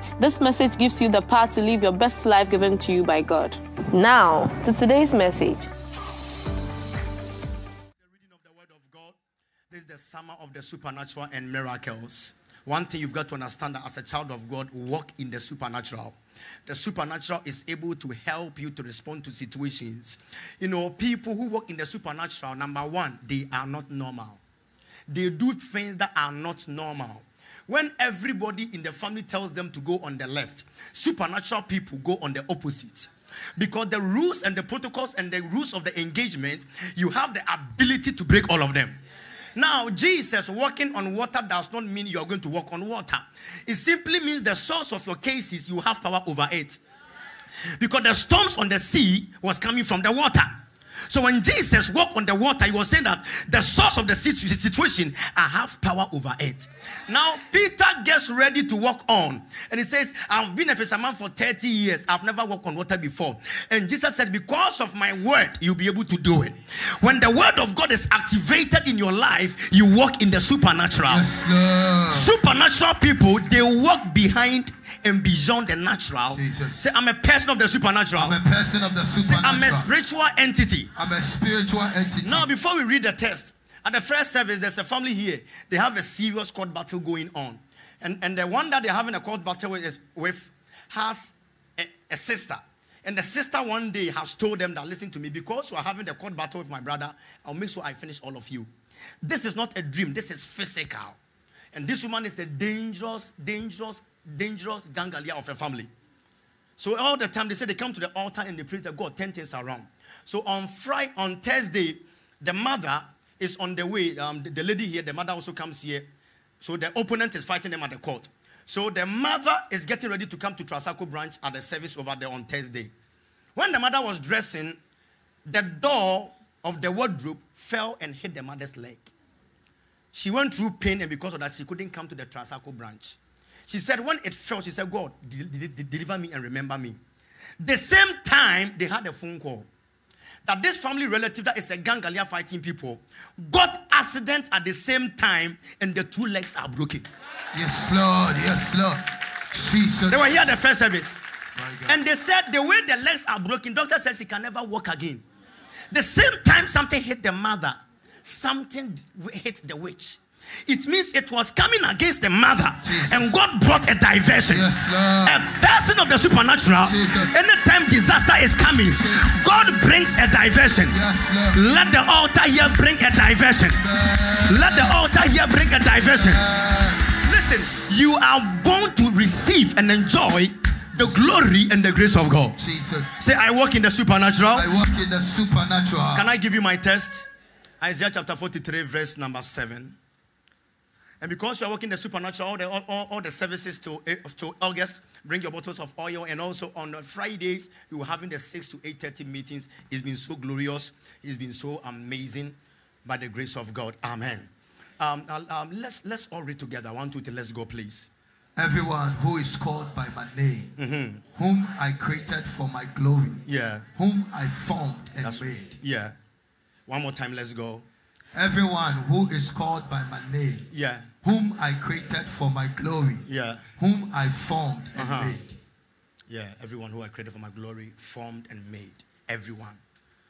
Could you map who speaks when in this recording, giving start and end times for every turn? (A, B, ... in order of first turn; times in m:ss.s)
0:00.2-0:05.7 A
0:08.0-0:09.2 B
0:09.7-0:24.4 B
0:25.1-0:39.0 B
0:39.6-0:46.8 B
0:47.8-0:50.5 B
0:51.1-1:11.3 B
1:11.1-1:12.3 C
1:12.1-1:18.4 B
1:16.3-1:16.8 C
1:18.2-1:19.9 C
1:19.2-1:20.9 B
1:21.0-1:22.5 C
1:22.2-1:38.7 B
1:39.2-1:41.2 B
1:41.7-1:45.9 B
1:46.8-1:56.1 B
1:56.6-2:02.9 B
2:03.6-2:04.8 B
2:05.4-2:09.1 B
2:10.1-2:17.0 B
2:17.6-2:19.7 B
2:20.4-2:27.1 B
2:27.5-2:30.5 C
2:30.1-2:31.3 B
2:31.5-2:32.0 C
2:31.9-2:35.2 B
2:35.9-2:44.7 B
2:42.8-2:43.4 C
2:44.4-2:45.4 C
2:45.2-2:51.0 B
2:46.8-2:47.3 C
2:48.8-2:49.8 C
2:50.9-2:51.7 C
2:51.5-2:53.8 B
2:53.7-2:55.0 C
2:54.5-2:56.4 B
2:55.9-2:57.1 C
2:57.2-3:02.6 B
3:01.0-3:01.4 C
3:02.6-3:03.1 C
3:03.2-3:04.7 B
3:04.5-3:06.3 C
3:06.1-3:07.3 B
3:07.8-3:10.0 B
3:11.2-3:28.1 B
3:28.6-3:30.7 C
3:30.8-3:31.2 B
3:31.3-3:33.4 C
3:33.4-3:33.9 B
3:34.0-3:35.8 C
3:35.2-3:36.2 B
3:36.9-3:37.8 B
3:38.3-3:40.7 C
3:40.7-3:41.1 B
3:41.2-3:43.2 C
3:43.3-3:43.7 B
3:43.8-3:45.6 C
3:45.0-3:45.4 B
3:46.3-3:49.8 B